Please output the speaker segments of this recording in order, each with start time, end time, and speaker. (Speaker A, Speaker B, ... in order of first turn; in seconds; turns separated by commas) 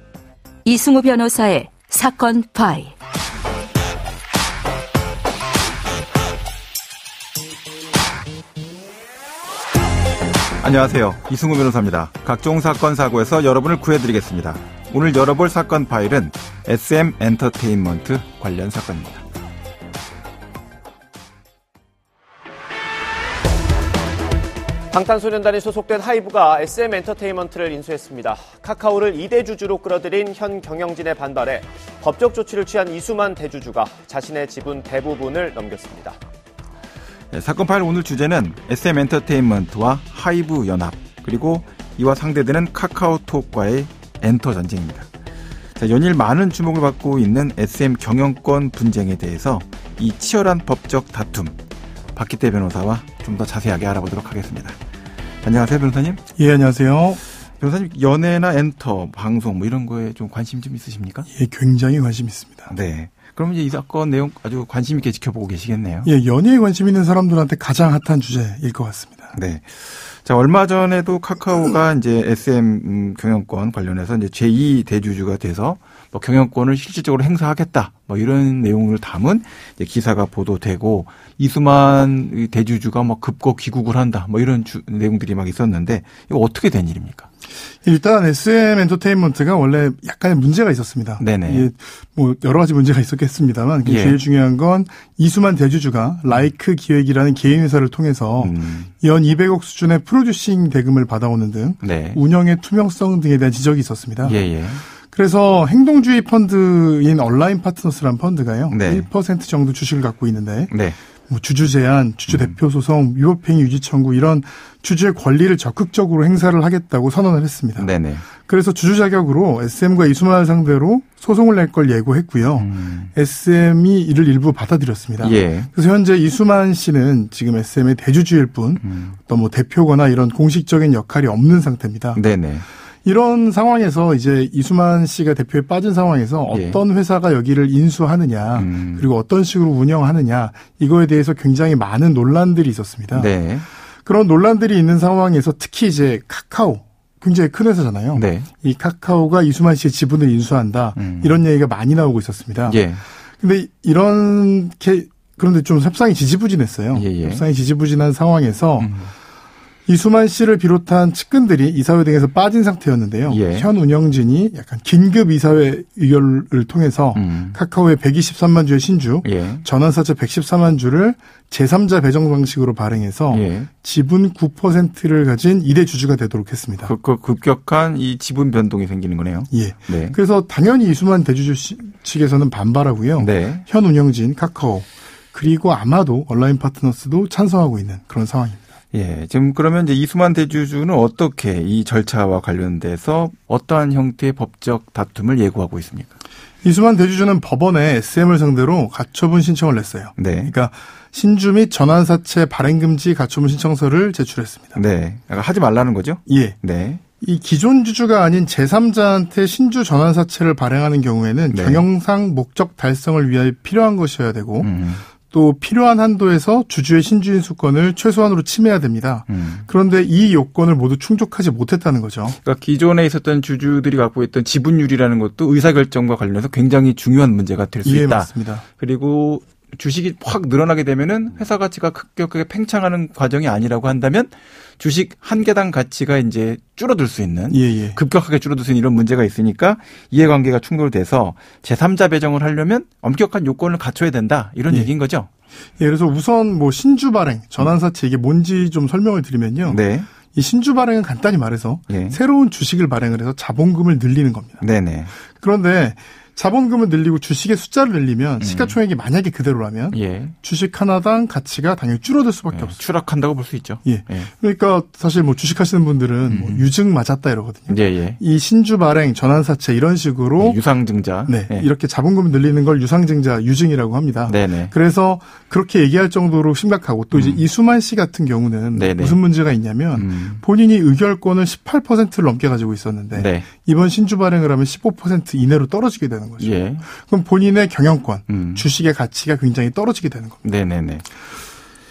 Speaker A: 0.6-2.9, Speaker B: 10.6-19.2, Speaker C: 24.9-36.2, Speaker B: 37.3-45.1, Speaker B: 45.8-51.6, Speaker B: 52.1-54.8, Speaker B: 55.4-56.2, Speaker D: 56.4-57.2, Speaker B: 57.6-61.3, Speaker D: 61.3-62.7, Speaker B: 62.7-66.1, Speaker D: 66.0-69.3, Speaker B: 69.3-87.3, Speaker D: 87.8-104.4, Speaker B: 91.2-91.7, Speaker B: 93.8-94.2, Speaker B: 98.4-98.9, Speaker B: 101.8-102.2, Speaker B: 104.2-104.9, Speaker D: 105.0-110.7, Speaker B: 108.7-109.1, Speaker B: 110.7-111.0, Speaker D: 111.3-132.2, Speaker B: 112.3-112.6, Speaker B: 117.8-118.2, Speaker B: 122.6-123.1, Speaker B: 125.2-125.7, Speaker B: 128.8-129.2, Speaker B: 132.1-132.7, Speaker D: 133.0-143.3, Speaker B: 136.5-136.8, Speaker B: 138.6-139.1, Speaker B: 143.1-143.7, Speaker D: 144.0-152.8, Speaker B: 148.1-148.5, Speaker B: 150.9-151.4, Speaker B: 152.7-153.0, Speaker D: 153.4-158.9, Speaker B: 156.9-157.4, Speaker B: 158.8-159.1, Speaker D: 159.8-176.9, Speaker B: 163.3-163.7, Speaker B: 167.1-167.6, Speaker B: 169.2-169.7, Speaker B: 173.3-173.7, Speaker B: 176.8-180.2, Speaker D: 179.5-188.6, Speaker B: 183.2-183.6, Speaker B: 188.9-196.2, Speaker D: 196.6-204.8, Speaker B: 200.2-200.5, Speaker B: 204.7-207.0, Speaker D: 206.3-206.6, Speaker D: 207.2-214.7, Speaker B: 211.5-211.8, Speaker B: 214.6-215.1, Speaker D: 215.2-222.4, Speaker B: 219.3-219.7, Speaker B: 222.3-245.3, Speaker D: 227.8-228.6, Speaker D: 237.5-238.0, Speaker D: 245.8-249.8, Speaker B: 249.6-250.1, Speaker D: 250.3-254.6, Speaker B: 251.9-252.2, Speaker B: 254.6-255.2, Speaker D: 255.3-262.8, Speaker B: 258.4-258.8, Speaker B: 259.9-260.3, Speaker B: 262.5-264.3, Speaker D: 263.8-270.6, Speaker B: 266.3-266.7, Speaker B: 267.7-268.2, Speaker B: 270.4-271.7, Speaker D: 271.3-290.4, Speaker B: 274.2-274.7, Speaker B: 277.1-277.4, Speaker B: 278.7-279.2, Speaker B: 279.9-280.4, Speaker B: 283.1-283.5, Speaker B: 286.4-286.9, Speaker B: 288.3-288.7, Speaker B: 290.4-291.1